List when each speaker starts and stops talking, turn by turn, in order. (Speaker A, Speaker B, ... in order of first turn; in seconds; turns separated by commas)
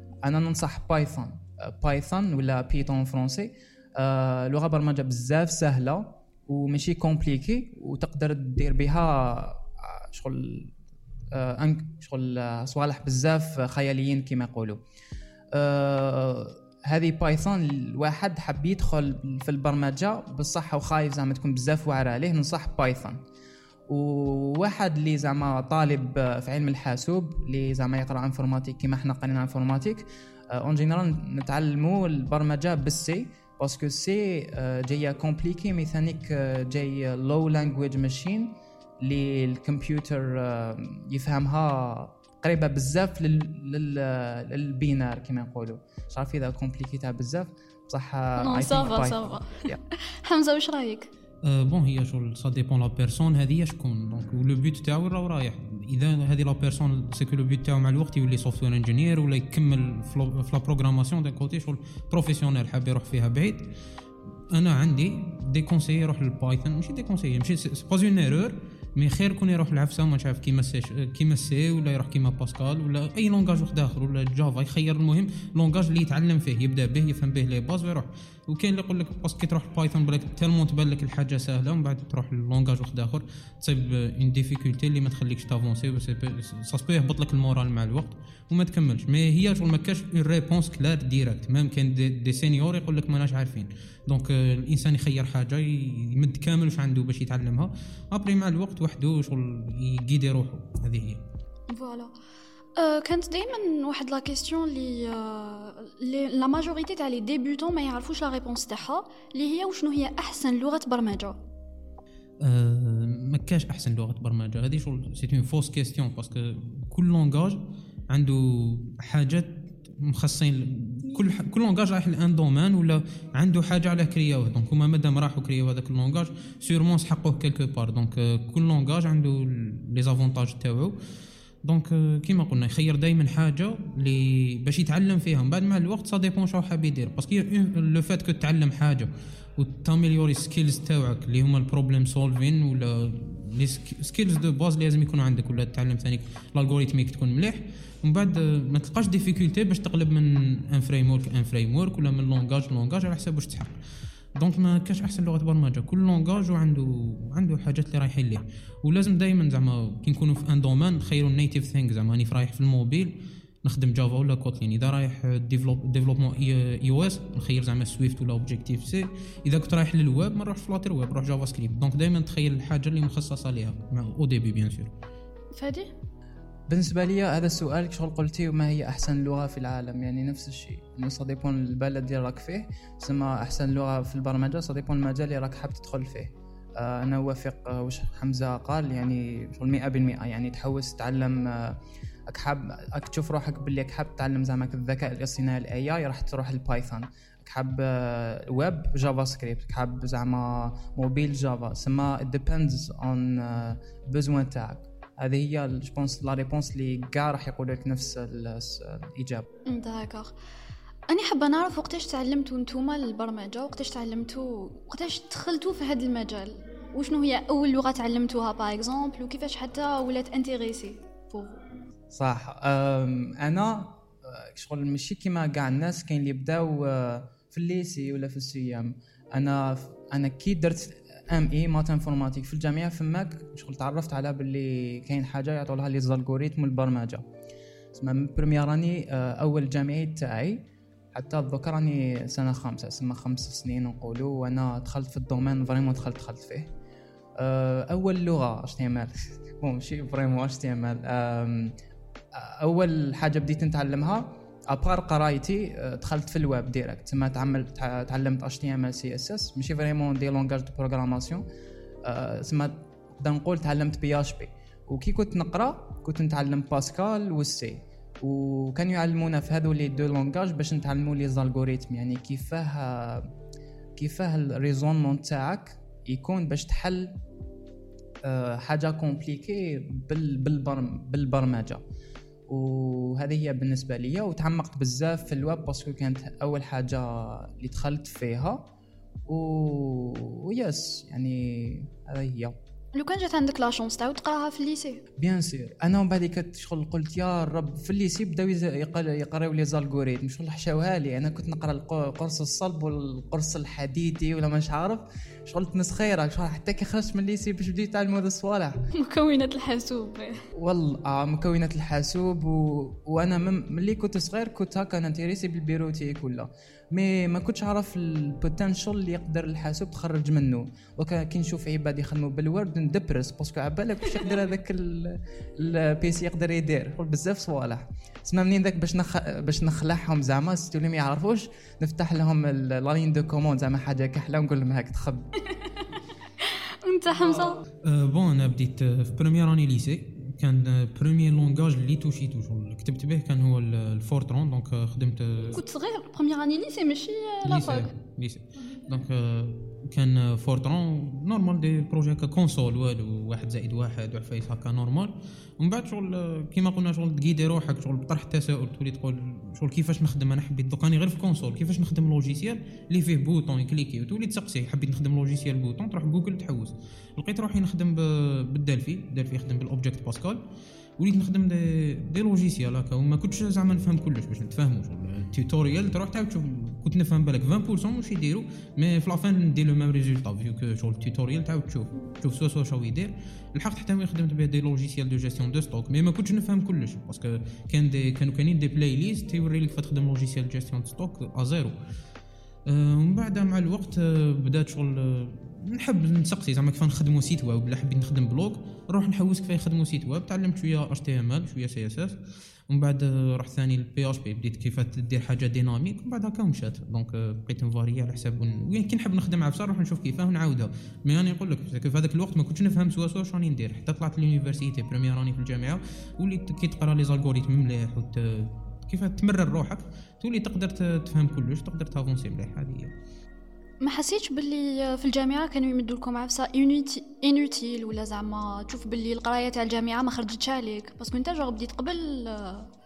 Speaker A: 0.2-10.8, Speaker A: 11.3-14.8, Speaker A: 15.5-23.2, Speaker A: 23.9-49.8, Speaker B: 48.4-51.1, Speaker C: 51.4-63.7, Speaker C: 64.5-101.2, Speaker B: 101.7-102.1, Speaker B: 102.8-111.4, Speaker C: 112.4-131.0, Speaker C: 131.6-153.8, Speaker C: 154.3-174.9, Speaker B: 175.5-175.9, Speaker A: 176.7-209.5, Speaker B: 209.7-210.3, Speaker B: 211.1-221.6, Speaker A: 222.1-237.2, Speaker A: 237.9-246.7, Speaker A: 247.4-251.8, Speaker A: 252.3-261.4, Speaker A: 262.1-273.3, Speaker A: 274.0-277.2, Speaker A: 278.2-281.8, Speaker A: 282.5-288.7, Speaker A: 289.3-292.6, Speaker B: 292.9-295.0, Speaker A: 295.2-308.8, Speaker B: 308.9-310.4, Speaker A: 310.5-335.3, Speaker B: 336.4-337.6, Speaker C: 337.8-345.6, Speaker B: 345.5-347.9, Speaker C: 347.4-370.4, Speaker C: 371.0-391.8, Speaker C: 392.7-402.2, Speaker C: 402.7-422.9, Speaker B: 423.8-432.7